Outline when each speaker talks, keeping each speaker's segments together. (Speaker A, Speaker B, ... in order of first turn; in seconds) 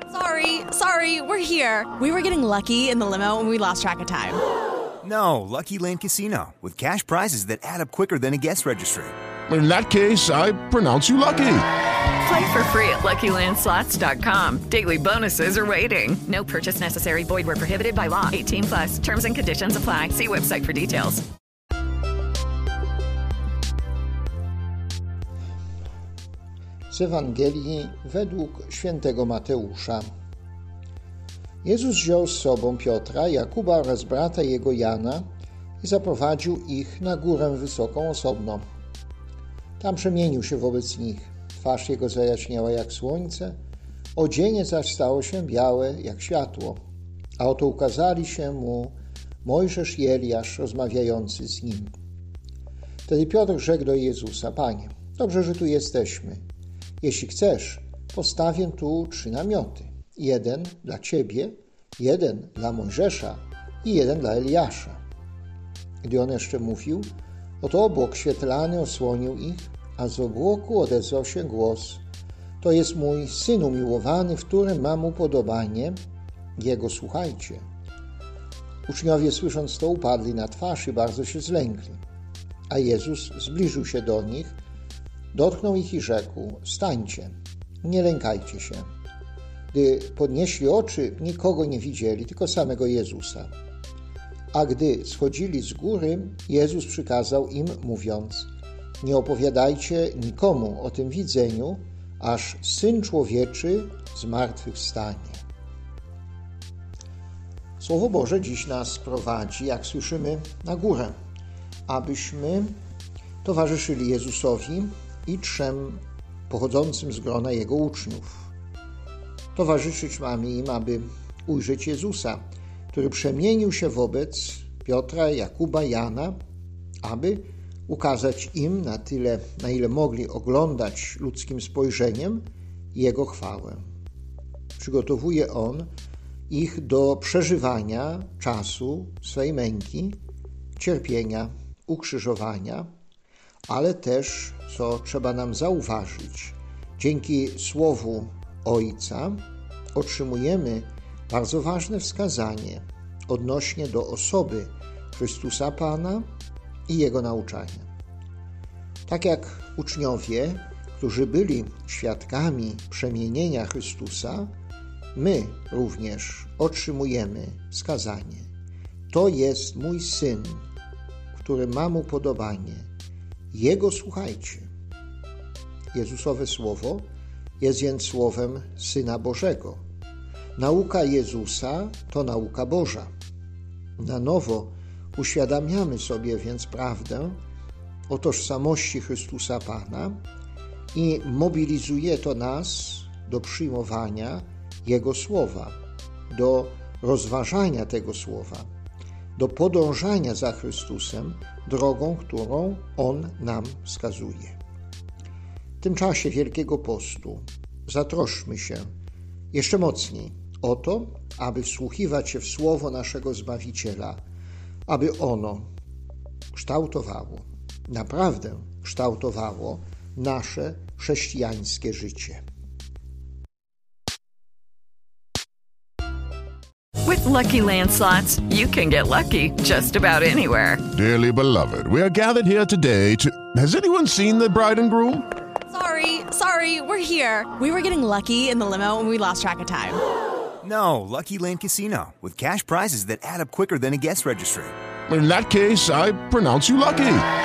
Speaker A: 0.2-4.4, 235.7-240.0
Speaker B: 5.0-9.1, 240.6-244.7
Speaker C: 9.5-11.7, 230.9-235.2, 245.1-247.2
Speaker D: 12.2-21.2, 227.0-230.8
Speaker E: 26.9-30.1, 31.6-35.2, 35.8-38.6, 39.8-43.6, 44.1-46.8, 47.4-52.0, 53.1-56.4, 57.0-65.0, 66.0-67.1, 67.6-72.0, 72.6-76.0, 76.6-77.6, 78.9-82.0, 82.7-84.5, 85.3-88.8, 89.7-93.5, 94.5-105.4, 107.8-111.1, 111.9-112.7, 113.4-118.5, 119.5-122.4, 122.9-126.3, 127.0-133.8, 134.8-135.9, 136.5-140.2, 140.8-142.9, 143.7-149.4, 149.9-156.2, 156.9-157.9, 159.1-164.5, 165.1-168.5, 169.1-170.7, 171.3-172.9, 173.5-174.7, 175.9-177.1, 177.6-179.8, 180.6-183.1, 184.0-187.4, 188.1-190.2, 190.9-195.7, 196.3-198.7, 199.3-204.6, 205.8-208.8, 209.5-214.2, 214.9-215.7, 216.5-222.4